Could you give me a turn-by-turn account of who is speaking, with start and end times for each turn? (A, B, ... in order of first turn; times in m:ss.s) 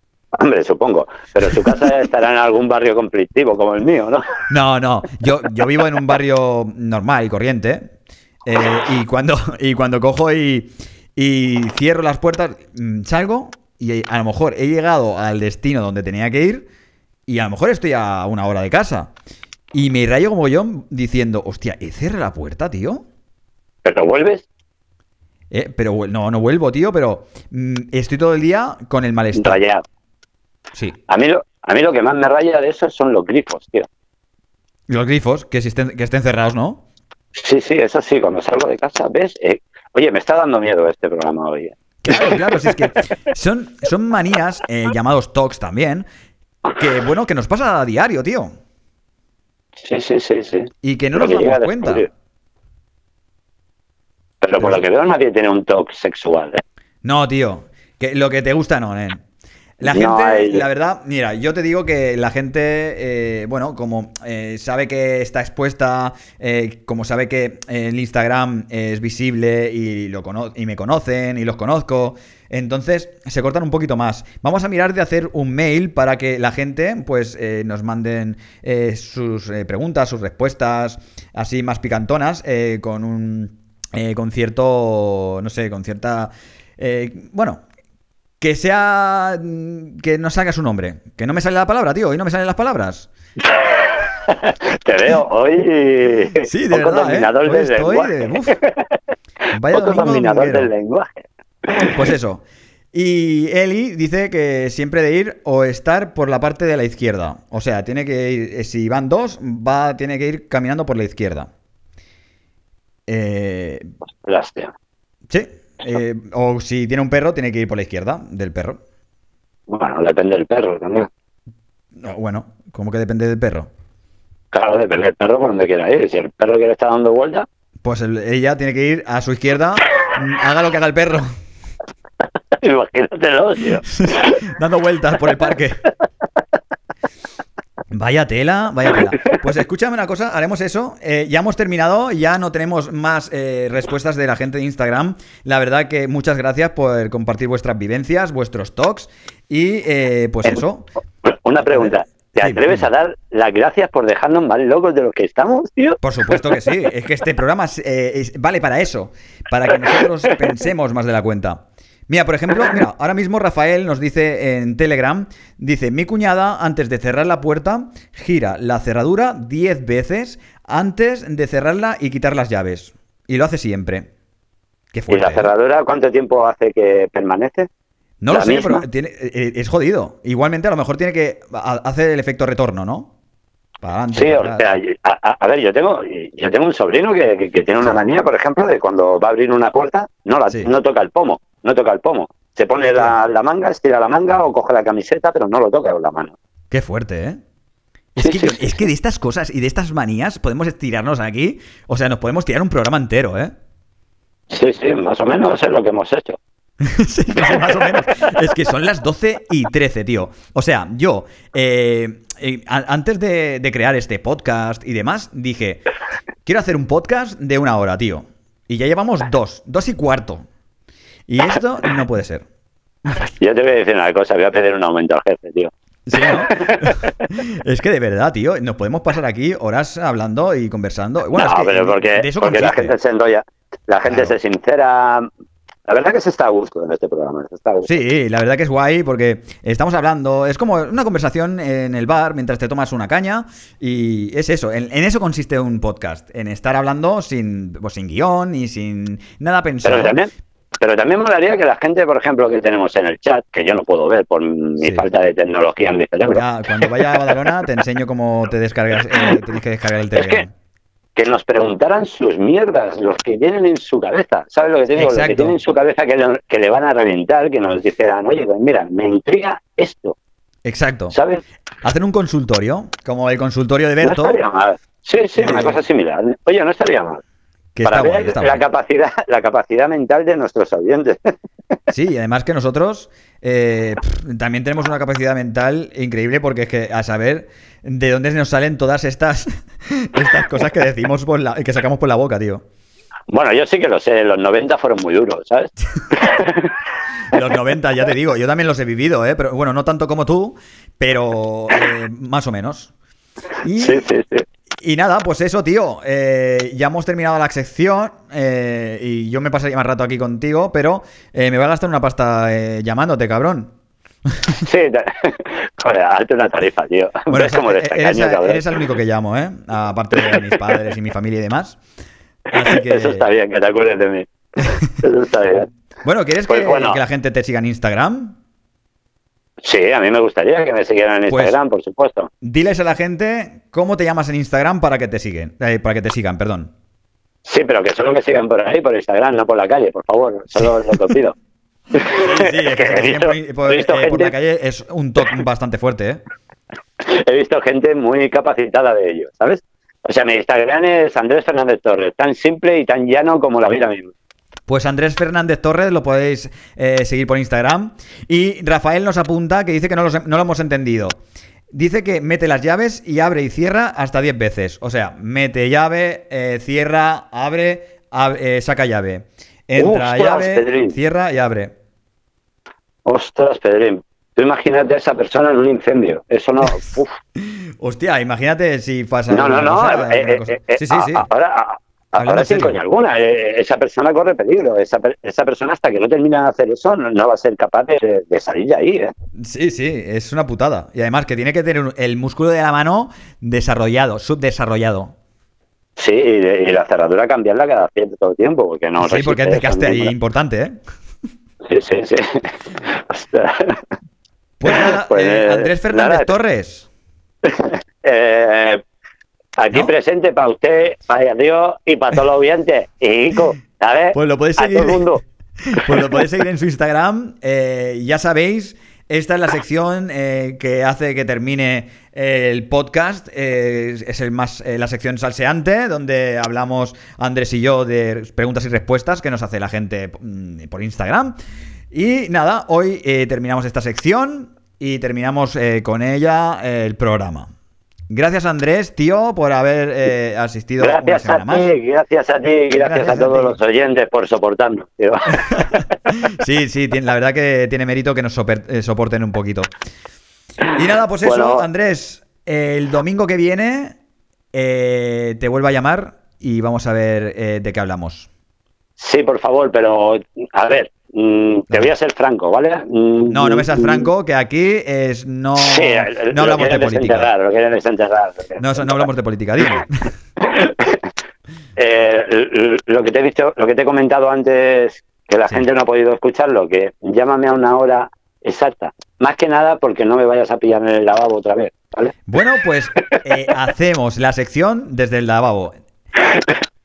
0:00.3-0:04.2 A
0:04.5-0:07.9 B
0:08.4-0:16.7 B
0:17.3-0:19.1 B
0:19.7-0:23.0 B
0:23.8-0:24.4 A
0:25.5-0:29.6 B
0:29.3-0:29.8 A
0:31.1-0:33.9 A
0:34.9-0:36.8 B
0:37.3-0:42.8 A
0:42.0-0:46.0 B
0:46.7-0:48.5 B
0:49.8-0:52.1 A
0:50.8-0:52.1 B
0:54.4-0:56.6 A
0:57.0-0:59.2 B
0:59.8-1:27.6 B
0:59.8-1:00.6 A
1:28.4-1:33.1 B
1:33.4-1:38.9 A
1:36.4-1:38.6 B
1:39.5-1:40.7 B
1:39.7-1:42.0 A
1:41.8-1:51.5 B
1:53.1-1:53.9 B
1:54.2-1:54.7 A
1:55.3-1:58.8 B
1:59.7-2:01.1 A
2:02.0-2:03.7 B
2:04.5-2:07.5 A
2:07.8-2:11.3 B
2:12.5-2:14.3 A
2:13.9-2:15.9 B
2:17.9-2:30.9 B
2:19.0-2:19.3 A
2:31.2-2:36.4 A
2:31.6-2:32.9 B
2:36.0-2:54.1 B
2:54.9-2:55.5 B
2:55.1-2:57.7 A
2:58.2-3:03.1 B
2:58.3-2:58.8 A
3:03.8-3:04.6 B
3:04.1-3:16.4 A
3:16.7-3:17.4 B
3:18.1-3:23.5 B
3:18.2-3:18.8 A
3:24.5-3:26.4 A
3:26.8-3:35.8 B
3:27.4-3:28.3 A
3:36.4-3:40.4 B
3:41.3-3:42.4 B
3:43.2-3:47.0 A
3:46.0-3:52.9 B
3:51.3-3:55.3 A
3:54.1-3:54.3 B
3:55.9-3:57.9 A
3:57.8-4:10.2 B
4:09.8-4:17.4 A
4:14.8-4:15.0 B
4:16.3-4:20.5 B
4:19.1-4:19.4 A
4:20.1-4:20.4 A
4:21.1-4:30.2 A
4:24.9-4:25.6 B
4:30.6-4:31.2 B
4:31.1-4:31.4 A
4:31.8-4:34.4 B
4:34.0-4:37.2 A
4:35.4-4:35.8 B
4:37.7-4:38.6 B
4:37.8-4:41.3 A
4:41.9-4:52.6 B
4:53.3-4:56.8 A
4:57.3-5:02.9 B
5:03.6-5:04.0 B
5:03.8-5:04.4 A
5:04.8-5:13.7 B
5:14.3-5:14.6 B
5:14.5-5:18.8 A
5:17.3-5:21.8 B
5:20.2-5:20.6 A
5:22.5-5:23.2 B
5:22.6-5:24.3 A
5:24.9-5:25.7 A
5:26.0-5:28.4 B
5:26.5-5:27.0 A
5:29.6-5:32.3 A
5:31.3-5:31.6 B
5:32.4-5:36.7 B
5:37.4-5:41.3 A
5:41.9-5:44.3 A
5:42.1-5:46.2 B
5:47.0-5:54.1 A
5:54.7-6:01.2 B
6:01.7-6:11.7 B
6:09.8-6:11.0 A
6:13.0-6:17.1 A
6:17.8-6:21.3 B
6:19.3-6:29.1 A
6:22.2-6:22.8 B
6:29.4-6:35.1 B
6:36.0-6:40.1 A
6:39.0-6:40.8 B
6:41.6-6:43.8 A
6:44.6-6:46.9 B
6:44.7-6:46.3 A
6:47.4-6:48.8 A
6:49.6-6:55.2 A
6:54.1-6:55.1 B
6:55.6-7:11.4 B
6:55.8-6:56.2 A
7:11.9-7:17.5 B
7:18.1-7:21.7 B
7:20.8-7:25.9 A
7:22.7-7:23.6 B
7:25.4-7:29.7 B
7:30.7-7:34.0 B
7:31.2-7:31.7 A
7:34.5-7:38.3 B
7:39.0-7:44.0 A
7:43.3-7:47.3 B
7:45.6-7:49.1 A
7:48.6-7:50.1 B
7:50.4-7:51.1 A
7:51.8-8:02.2 A
8:02.3-8:05.7 B